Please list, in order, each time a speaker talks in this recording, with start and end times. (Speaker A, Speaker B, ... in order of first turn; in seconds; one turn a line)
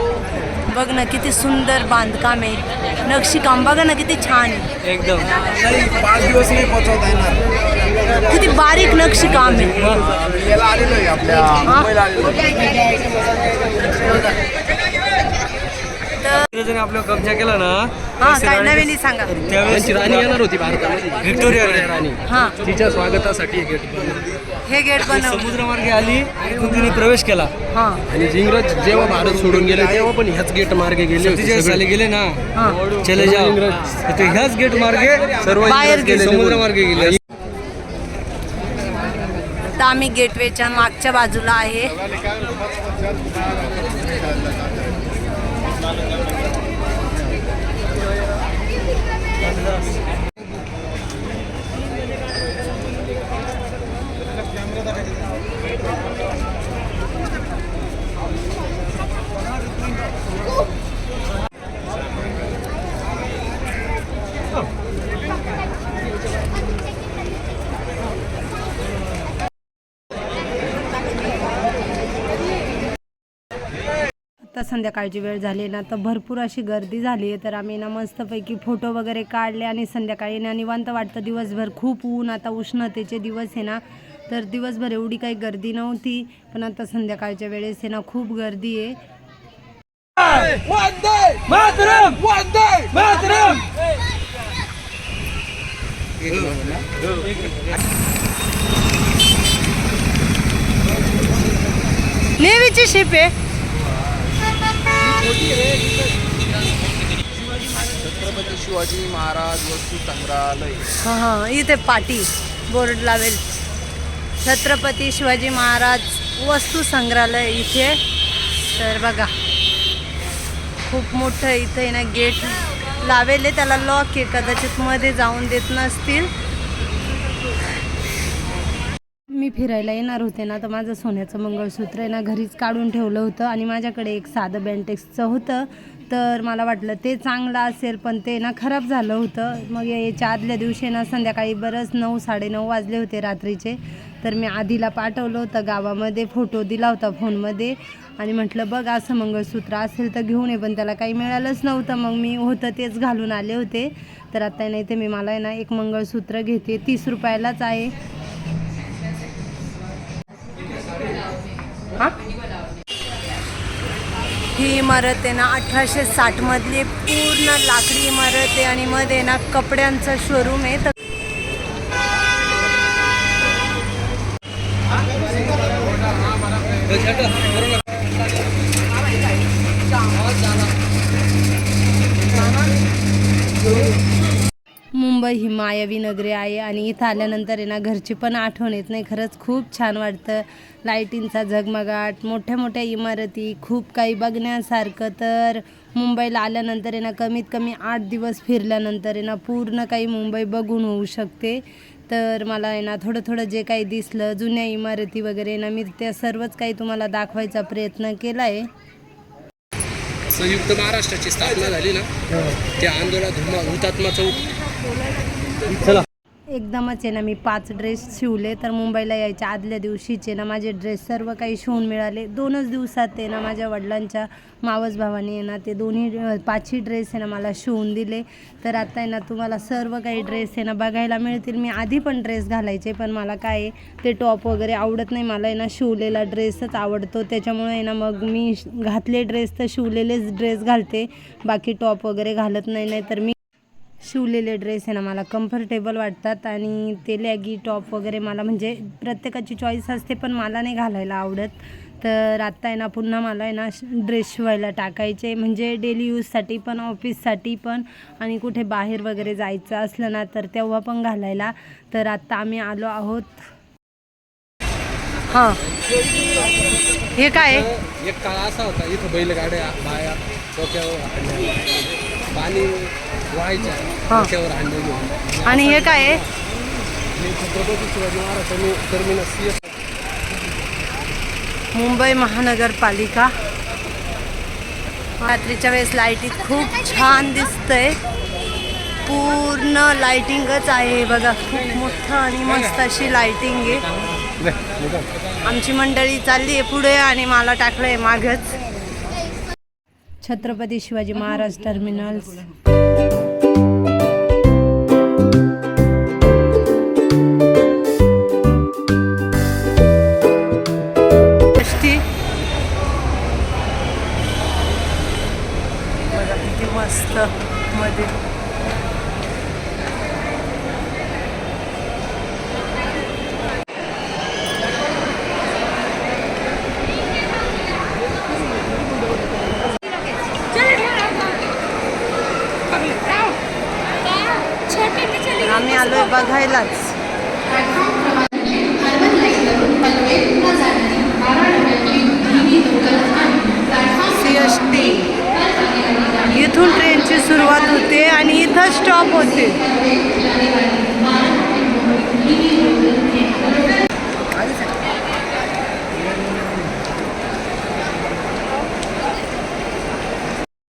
Speaker A: 0.7-4.7
Speaker B: 4.8-5.4
Speaker C: 6.0-7.3
Speaker A: 8.2-10.0
Speaker B: 9.7-10.1
Speaker C: 10.6-12.4
Speaker A: 11.6-12.1
Speaker A: 16.2-16.5
Speaker B: 16.5-18.8
Speaker A: 18.2-19.5
Speaker B: 19.4-20.4
Speaker D: 19.6-24.3
Speaker B: 21.2-21.9
Speaker A: 22.3-22.6
Speaker A: 24.6-25.6
Speaker B: 25.1-27.5
Speaker A: 27.7-28.0
Speaker D: 28.1-31.9
Speaker B: 31.2-35.4
Speaker A: 32.5-32.8
Speaker D: 32.9-34.3
Speaker D: 35.0-37.2
Speaker A: 35.6-36.3
Speaker B: 36.1-37.1
Speaker A: 39.6-42.0
Speaker A: 74.4-89.0
Speaker D: 90.3-93.6
Speaker B: 91.7-92.0
Speaker A: 102.4-103.3
Speaker C: 108.0-110.9
Speaker A: 111.0-113.6
Speaker A: 114.4-118.0
Speaker A: 118.7-119.3
Speaker A: 120.8-126.3
Speaker A: 129.3-157.9
Speaker A: 164.5-170.9
Speaker D: 176.9-177.2
Speaker A: 184.9-208.7
Speaker D: 210.3-214.5
Speaker B: 215.8-216.1
Speaker A: 216.5-243.3
Speaker A: 244.0-263.5
Speaker A: 265.3-265.6
Speaker A: 267.1-267.7
Speaker D: 267.5-276.1
Speaker A: 275.4-276.2
Speaker D: 277.1-279.6
Speaker A: 281.7-283.4
Speaker A: 285.2-288.0
Speaker A: 289.0-293.9
Speaker D: 294.6-295.0
Speaker A: 295.4-298.6
Speaker A: 300.2-302.4
Speaker A: 311.6-312.1
Speaker A: 316.0-318.2
Speaker A: 335.0-337.0
Speaker A: 339.1-339.7
Speaker A: 340.4-341.0
Speaker A: 341.9-345.1
Speaker A: 346.1-349.7